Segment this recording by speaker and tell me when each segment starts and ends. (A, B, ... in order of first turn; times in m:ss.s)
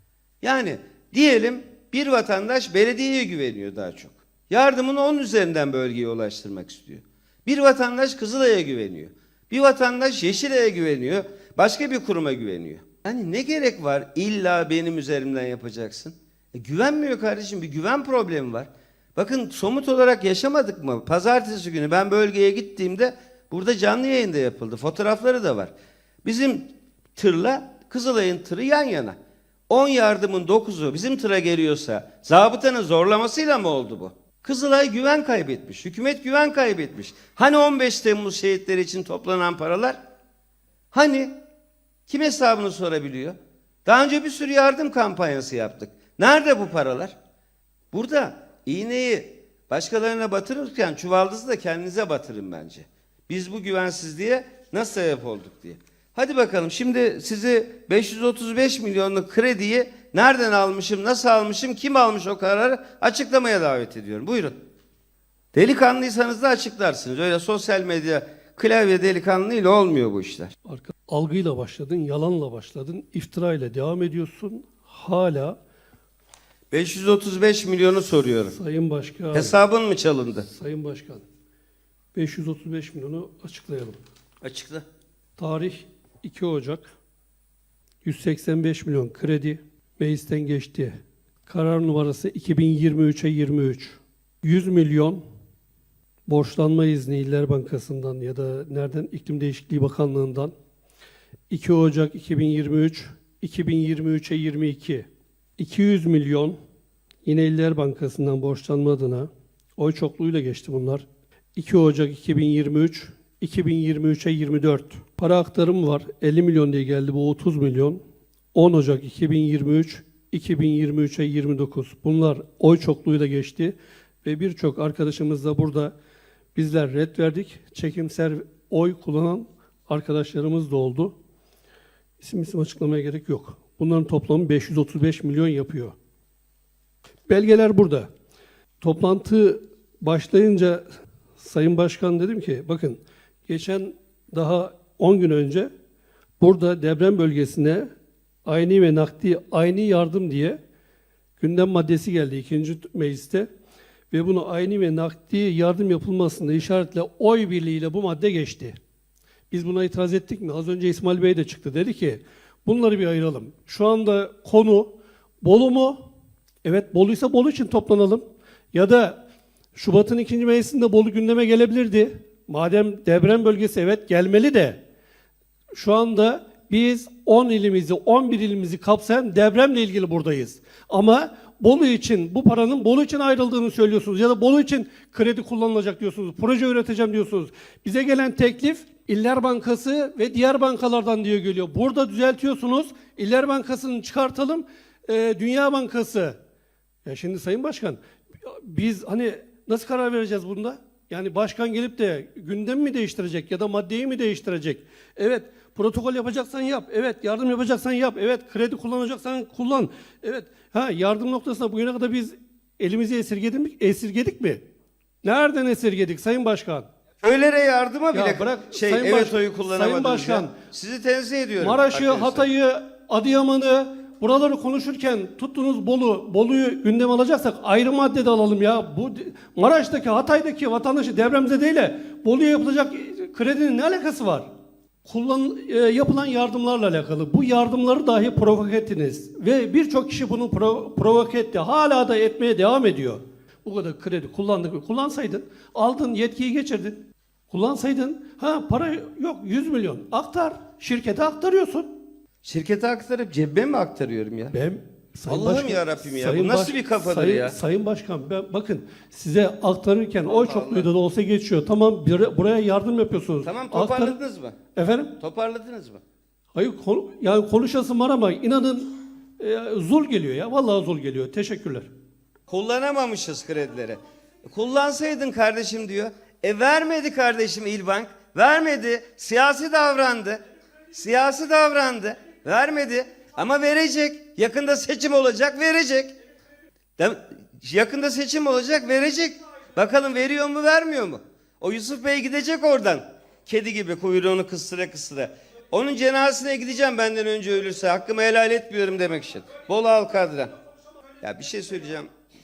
0:00.4-0:25.7 A
0:26.2-0:29.2 A
0:29.7-0:40.0 A
0:40.9-0:41.3 A
0:42.1-0:47.2 A
0:47.9-1:04.6 A
1:05.5-1:10.5 A
1:10.7-1:15.6 B
1:16.7-1:18.6 A
1:18.5-1:19.6 B
1:19.3-1:20.5 A
1:20.5-1:21.2 B
1:22.1-1:24.0 B
1:24.4-1:24.8 A
1:25.4-1:26.9 B
1:28.0-1:30.9 B
1:31.5-1:35.2 B
1:36.3-1:40.5 B
1:41.5-1:46.6 B
1:47.2-1:58.0 B
1:58.5-2:05.9 B
2:06.6-2:11.2 B
2:12.2-2:16.0 B
2:17.3-2:18.1 B
2:18.8-2:20.8 B
2:21.4-2:25.7 B
2:26.4-2:27.9 B
2:28.5-2:30.6 B
2:31.4-2:33.5 B
2:34.1-2:38.8 B
2:39.5-2:46.1 B
2:46.6-2:49.2 B
2:49.8-2:54.8 B
2:55.7-3:16.4 B
3:17.1-3:34.6 B
3:35.2-3:36.9 B
3:37.2-3:42.5 A
3:38.1-3:40.5 B
3:41.6-3:54.5 B
3:55.0-4:12.0 B
4:12.4-4:14.6 A
4:14.5-4:24.2 B
4:15.3-4:17.6 A
4:20.3-4:20.9 A
4:23.4-4:24.6 A
4:24.8-4:25.1 B
4:25.2-4:26.0 A
4:26.5-4:31.9 B
4:32.5-4:46.1 A
4:47.0-5:00.5 A
5:01.2-5:02.1 A